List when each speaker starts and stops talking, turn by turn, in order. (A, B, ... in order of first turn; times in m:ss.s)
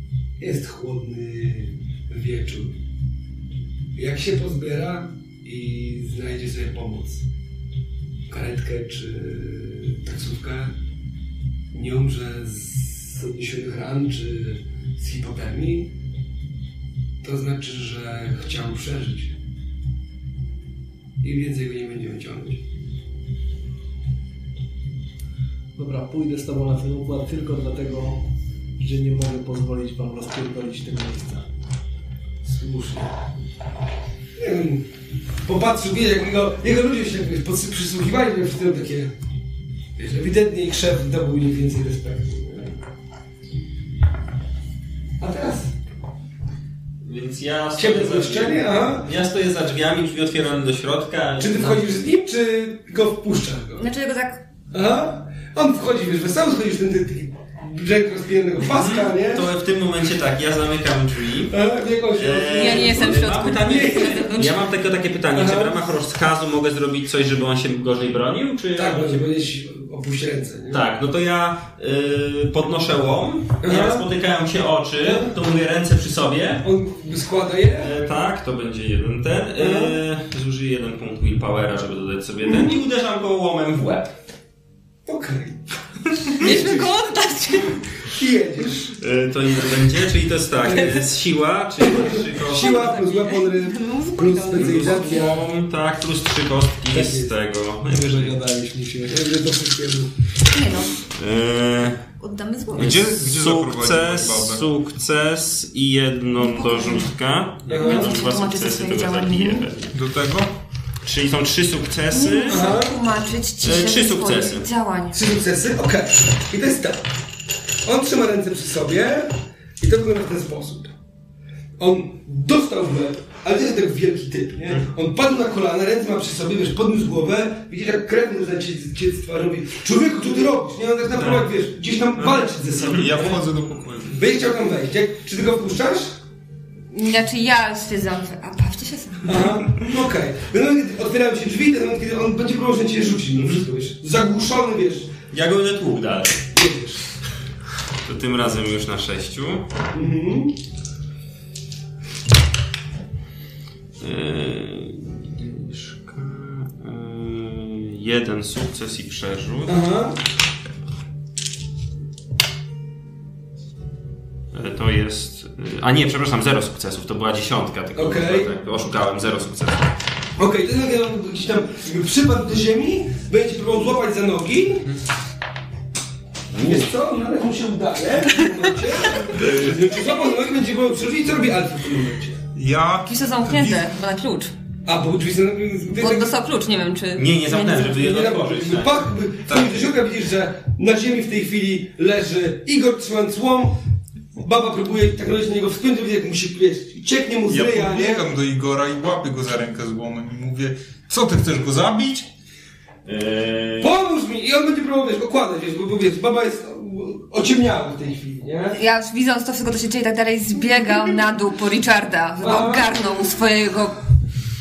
0:00.4-0:02.8 A
0:04.0-0:07.3 A
0:08.3-0:10.8 A
0:11.7-0:15.9 A
0:17.2-0:19.4 A
0:21.2-0:22.6 A
0:25.8-0:28.2 B
0:28.8-0:31.4 B
0:32.4-0:33.2 A
0:34.4-0:34.9 A
0:35.4-0:39.1 A
0:40.0-0:42.8 A
0:45.2-0:45.8 A
0:47.0-0:51.9 C
0:47.8-0:49.1 A
0:51.4-0:53.9 A
0:53.8-0:54.4 D
0:54.7-0:59.5 A
0:58.7-1:01.6 C
1:01.5-1:04.3 A
1:02.2-1:09.3 C
1:02.5-1:04.6 D
1:05.3-1:05.8 A
1:08.8-1:10.8 A
1:10.7-1:16.7 C
1:13.6-1:14.1 A
1:15.0-1:15.4 A
1:16.6-1:17.9 A
1:17.8-1:24.1 C
1:19.6-1:20.0 A
1:22.5-1:22.8 A
1:25.1-1:25.7 A
1:26.4-1:26.9 A
1:26.4-1:28.1 D
1:28.0-1:29.0 A
1:29.0-1:32.9 C
1:30.6-1:31.1 A
1:31.8-1:35.5 A
1:32.5-1:35.3 D
1:34.5-1:38.4 C
1:36.9-1:37.3 A
1:37.9-1:39.2 B
1:39.1-1:40.2 A
1:40.5-1:41.0 D
1:41.0-1:42.1 C
1:42.2-1:43.0 D
1:42.8-1:44.6 E
1:42.8-1:49.9 C
1:46.4-1:47.1 D
1:47.7-1:48.1 A
1:47.7-1:49.7 D
1:49.9-1:50.5 E
1:51.0-1:52.7 C
1:52.1-1:55.2 D
1:52.5-1:53.0 A
1:53.6-1:54.7 C
1:55.1-1:57.1 A
1:57.8-2:01.0 A
2:01.8-2:13.4 A
2:11.2-2:11.4 C
2:12.2-2:13.2 C
2:12.8-2:14.2 E
2:14.0-2:16.2 A
2:16.9-2:19.7 D
2:19.2-2:25.1 A
2:23.4-2:23.6 C
2:25.3-2:26.4 C
2:26.5-2:27.0 A
2:28.0-2:29.7 C
2:29.9-2:30.6 A
2:34.0-2:39.8 C
2:39.7-2:40.2 A
2:44.5-2:50.0 C
2:48.0-2:48.5 A
2:50.4-2:54.9 A
2:56.5-2:56.9 C
2:56.6-3:02.4 A
2:59.4-2:59.9 E
3:02.6-3:03.9 E
3:03.1-3:04.5 D
3:04.8-3:06.4 A
3:06.0-3:08.0 D
3:07.2-3:09.1 C
3:08.0-3:13.8 A
3:09.5-3:09.8 E
3:14.4-3:18.3 A
3:17.5-3:22.3 E
3:23.0-3:23.9 C
3:23.8-3:28.8 A
3:28.8-3:34.0 D
3:32.4-3:33.0 A